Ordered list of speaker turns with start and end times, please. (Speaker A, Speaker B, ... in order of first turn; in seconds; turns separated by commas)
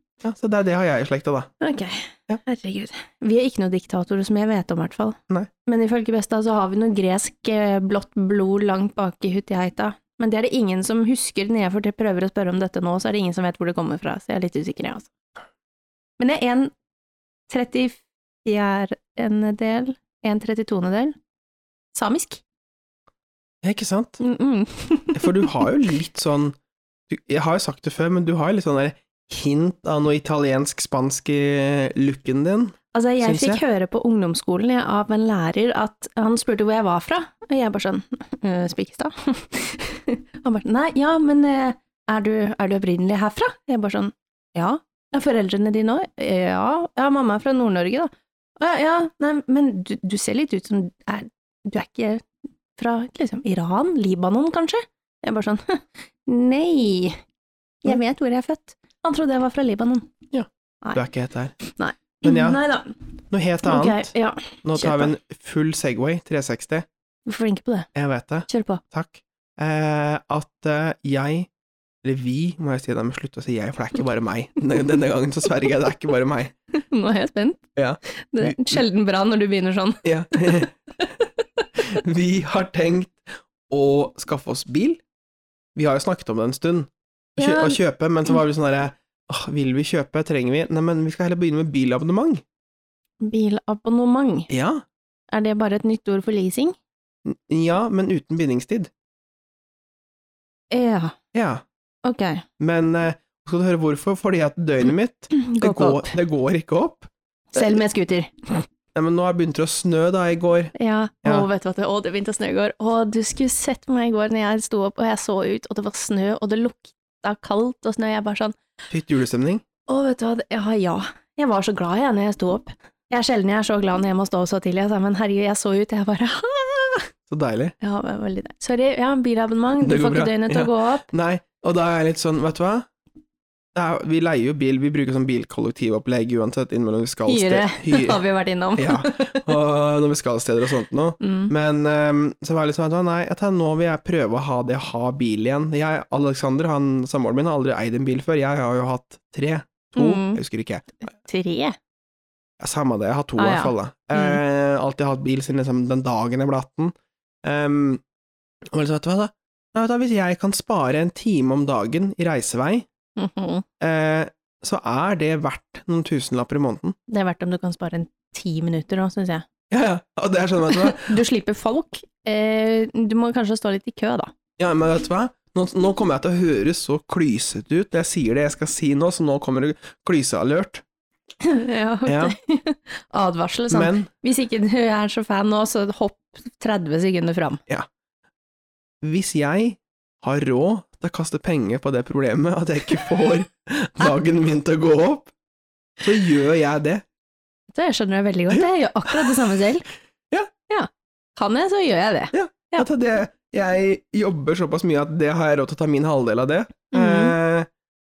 Speaker A: 0.2-1.5, Speaker B: 1.6-15.1, Speaker B: 16.2-16.7, Speaker B: 17.5-21.1, Speaker B: 21.9-22.4, Speaker A: 23.6-24.2, Speaker B: 24.2-25.7, Speaker A: 25.1-26.6, Speaker A: 27.1-33.6, Speaker B: 32.9-52.2, Speaker B: 52.8-57.2, Speaker B: 57.8-60.1, Speaker A: 60.3-61.5, Speaker B: 61.6-63.0, Speaker A: 62.2-62.6, Speaker A: 63.3-64.1, Speaker B: 63.6-65.1, Speaker A: 64.6-66.9, Speaker B: 67.3-67.9, Speaker A: 68.0-71.5, Speaker B: 68.5-68.8, Speaker A: 72.0-76.5, Speaker B: 76.7-81.7, Speaker A: 77.8-78.8, Speaker A: 80.0-80.7, Speaker A: 81.8-85.0, Speaker A: 85.8-92.4, Speaker B: 87.4-87.8, Speaker B: 93.2-94.5, Speaker A: 94.5-94.8, Speaker B: 95.3-96.8, Speaker A: 97.2-98.9, Speaker B: 100.7-101.2, Speaker A: 101.3-101.6, Speaker B: 102.0-102.5, Speaker A: 102.6-107.8, Speaker B: 105.3-106.2, Speaker B: 107.5-108.7, Speaker A: 109.0-110.7, Speaker B: 110.8-118.6, Speaker A: 118.9-119.6, Speaker B: 119.9-127.1, Speaker A: 127.3-127.8, Speaker B: 127.8-131.1, Speaker A: 129.8-132.9, Speaker A: 133.7-138.2, Speaker B: 137.3-139.5, Speaker A: 138.8-150.9, Speaker B: 141.2-141.5, Speaker B: 150.0-150.4, Speaker B: 151.1-151.8, Speaker A: 152.6-158.0, Speaker B: 153.4-154.4, Speaker A: 158.7-162.9, Speaker B: 163.2-163.7, Speaker A: 163.8-166.9, Speaker B: 167.1-169.5, Speaker A: 169.7-171.2, Speaker B: 170.7-174.3, Speaker A: 174.6-180.8, Speaker B: 181.4-187.6, Speaker A: 182.1-182.3, Speaker A: 183.7-184.1, Speaker A: 189.0-195.3, Speaker A: 196.0-197.0, Speaker B: 197.7-199.9, Speaker A: 198.5-199.3, Speaker B: 200.7-202.9, Speaker A: 202.3-207.7, Speaker B: 206.9-207.3